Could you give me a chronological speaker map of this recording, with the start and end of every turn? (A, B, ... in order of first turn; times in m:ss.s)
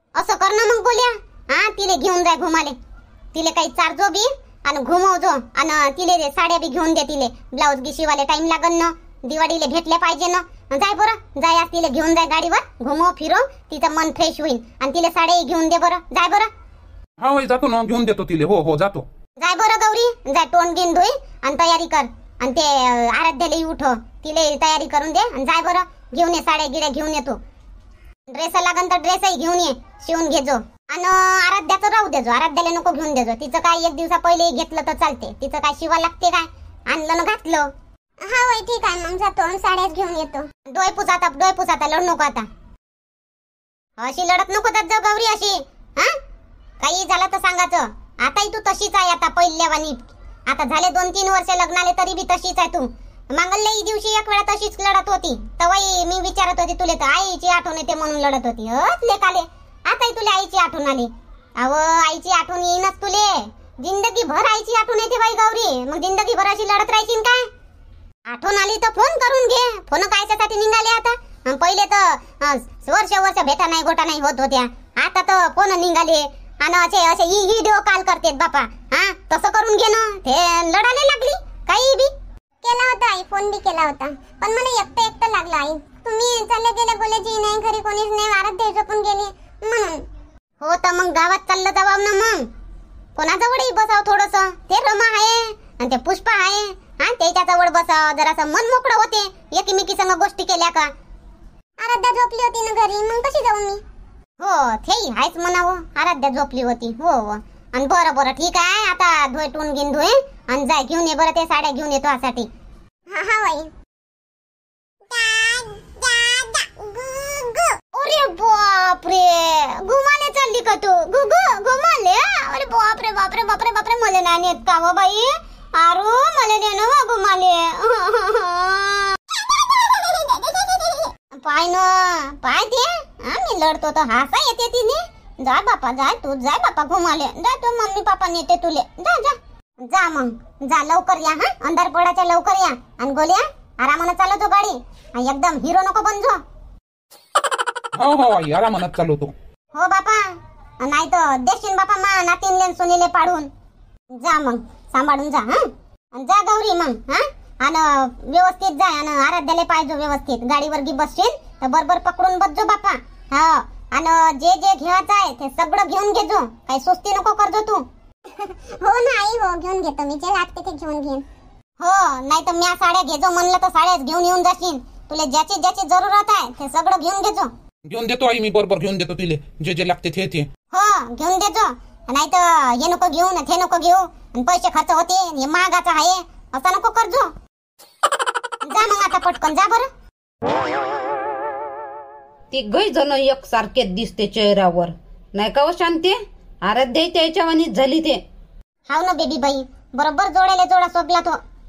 0:00.2-0:02.8 A
0:03.3-0:16.5 A
0:17.2-0:19.0 B
0:19.4-0:27.4 A
0:28.3-0:37.7 A
0:38.2-0:42.5 A
0:44.0-0:46.1 A
0:46.8-1:07.4 A
1:08.3-1:22.1 A
1:22.6-1:30.0 A
1:30.6-1:32.5 A
1:33.2-1:40.9 A
1:41.8-1:43.8 A
1:44.4-1:52.5 A
1:53.1-1:53.7 A
1:55.1-2:09.2 A
2:09.8-2:26.4 A
2:28.0-2:29.3 B
2:29.7-2:30.2 A
2:30.8-2:33.5 A
2:34.1-2:51.2 A
2:51.8-2:57.5 A
2:57.9-3:00.5 B
3:00.7-3:07.3 A
3:08.6-3:09.9 A
3:12.5-3:18.2 C
3:18.9-3:21.4 A